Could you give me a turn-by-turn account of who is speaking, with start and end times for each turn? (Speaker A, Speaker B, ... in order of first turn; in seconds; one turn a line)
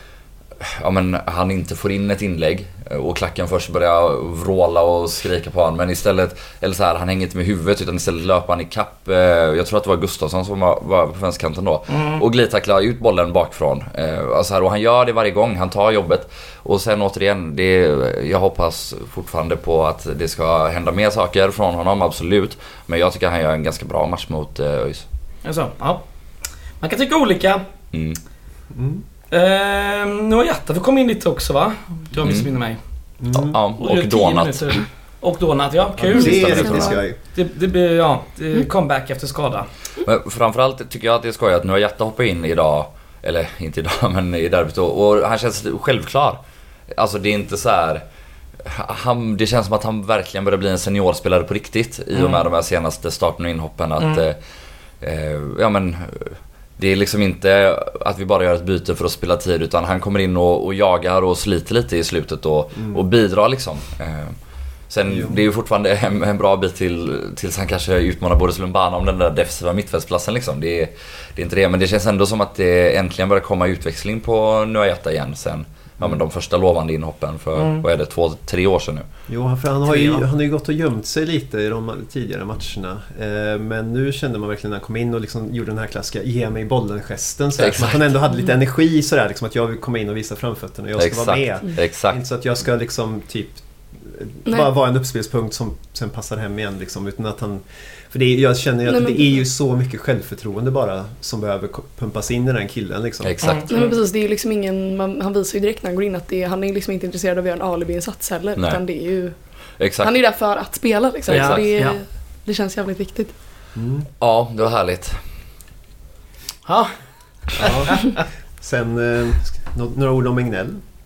Speaker A: 0.6-25.1
Speaker B: 11.9-12.2
Speaker B: 25.4-26.0
Speaker B: 26.8-27.6
Speaker A: 27.9-28.2
Speaker C: 28.7-29.0
Speaker B: 29.3-32.8
Speaker A: 32.2-32.5
Speaker C: 33.2-33.6
Speaker A: 33.3-34.8
Speaker B: 33.8-39.7
Speaker C: 36.0-37.2
Speaker A: 36.1-37.0
Speaker D: 36.1-37.0
Speaker A: 40.0-46.4
Speaker A: 46.9-48.0
Speaker A: 48.6-54.4
Speaker B: 52.2-52.4
Speaker A: 55.0-64.3
Speaker A: 64.9-79.1
Speaker C: 65.1-65.4
Speaker B: 77.6-77.8
Speaker C: 79.3-103.5
Speaker A: 87.6-88.1
Speaker A: 91.0-92.2
Speaker D: 98.9-99.3
Speaker A: 103.2-103.7
Speaker B: 103.4-104.0
Speaker D: 103.7-109.3
Speaker A: 109.8-110.1
Speaker D: 110.0-113.3
Speaker B: 111.3-112.0
Speaker A: 111.3-111.6
Speaker C: 113.7-114.1
Speaker A: 114.2-115.2
Speaker B: 116.7-116.9
Speaker B: 117.5-118.1
Speaker C: 117.6-120.8